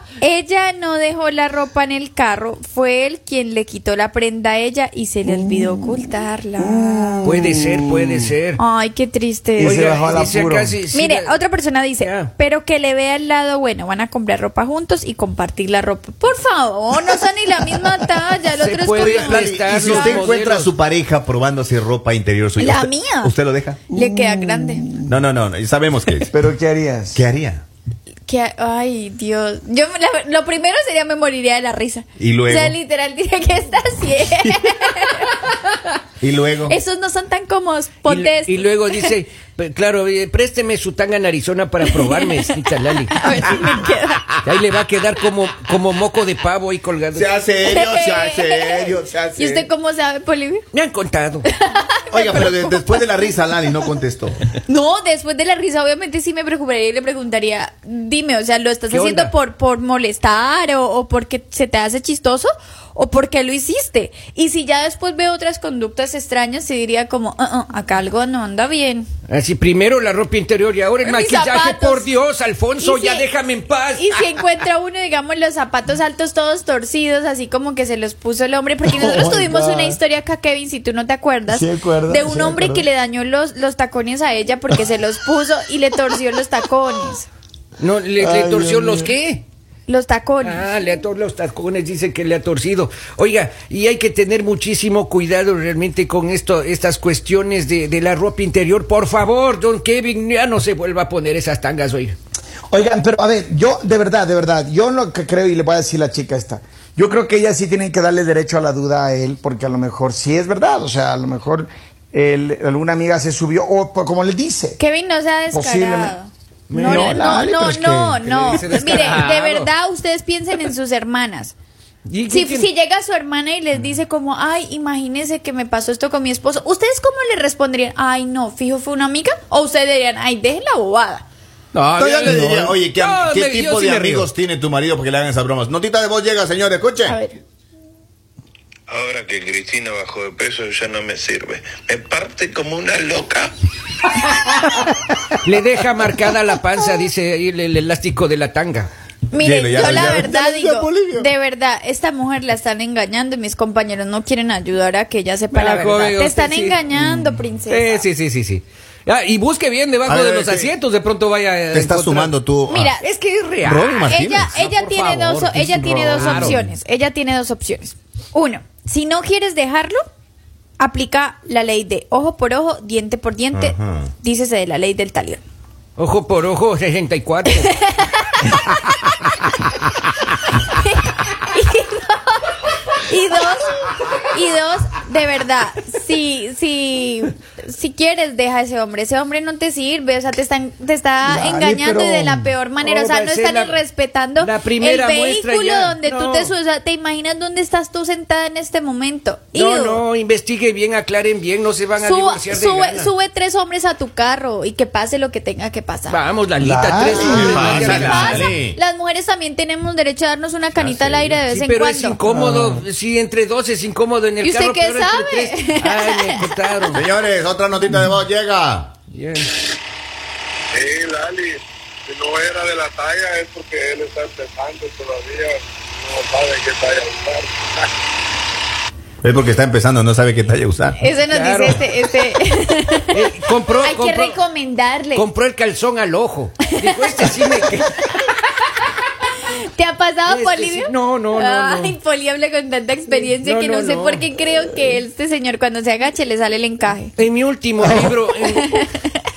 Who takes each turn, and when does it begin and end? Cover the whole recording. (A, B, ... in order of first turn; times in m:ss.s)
0:00.2-0:07.3 A
0:06.6-0:08.2 B
0:07.2-0:08.6 C
0:08.6-0:10.2 A
0:09.6-0:10.8 B
0:09.6-0:11.4 C
0:10.9-0:20.3 A
0:12.0-0:12.3 C
0:18.5-0:20.7 C
0:19.0-0:23.8 D
0:22.6-0:23.3 A
0:23.9-0:24.9 A
0:23.9-0:25.1 B
0:25.1-0:26.4 D
0:26.3-0:27.2 B
0:27.1-0:27.6 D
0:28.3-0:35.9 A
0:32.2-0:32.8 D
0:36.2-0:36.8 D
0:36.7-0:39.1 A
0:38.1-0:43.2 C
0:41.9-0:42.4 A
0:43.1-0:44.3 A
0:44.4-0:47.3 C
0:47.1-0:49.7 D
0:47.6-0:50.6 A
0:50.7-0:51.5 C
0:51.5-0:53.1 A
0:52.1-0:54.4 D
0:54.7-1:09.1 A
0:58.9-0:59.3 C
1:09.3-1:14.3 C
1:11.0-1:12.1 A
1:12.8-1:13.3 A
1:14.0-1:27.3 A
1:18.8-1:20.0 B
1:21.5-1:22.9 B
1:27.8-1:29.4 C
1:28.2-1:29.2 B
1:29.9-1:30.7 A
1:30.4-1:42.2 C
1:42.7-1:54.8 B
1:54.8-2:01.6 A
1:55.5-1:56.2 B
1:56.7-1:57.3 C
1:56.8-1:58.6 B
1:58.5-1:59.7 C
2:02.1-2:02.7 C
2:02.3-2:11.2 A
2:11.7-2:14.3 C
2:12.0-2:17.2 D
2:17.1-2:17.4 A
2:18.9-2:23.5 E
2:25.4-2:28.9 C
2:29.3-2:38.0 A
2:29.4-2:31.3 D
2:35.5-2:37.0 C
2:37.7-2:42.4 C
2:40.1-2:40.7 D
2:41.7-2:42.9 D
2:42.7-2:43.1 A
2:43.0-2:46.6 C
2:43.6-2:44.6 D
2:44.1-2:50.0 A
2:45.9-2:46.5 B
2:50.8-2:55.4 A
2:53.5-2:54.1 D
2:56.0-2:57.8 C
2:57.6-2:58.8 A
3:00.5-3:20.0 A
3:11.2-3:12.5 B
3:12.8-3:13.8 C
3:14.4-3:16.5 C
3:19.5-3:23.1 C
3:22.0-3:26.2 A
3:26.1-3:28.5 C
3:26.6-3:27.8 B
3:27.1-3:32.2 A
3:27.2-3:28.8 D
3:30.8-3:31.4 D
3:31.5-3:37.0 C
3:32.3-3:32.8 B
3:34.4-3:36.9 A
3:36.9-3:38.9 D
3:39.1-3:39.6 C
3:40.7-3:47.8 E
3:49.2-3:51.0 D
3:51.0-3:53.3 A
3:51.3-3:51.8 C
3:53.1-3:54.4 C
3:53.8-3:55.3 A
3:55.2-3:58.1 C
3:56.7-3:57.3 A
3:58.1-3:58.9 A
3:59.6-4:07.1 A
4:00.3-4:02.0 C
4:03.2-4:04.4 C
4:07.2-4:08.9 C
4:08.5-4:09.2 A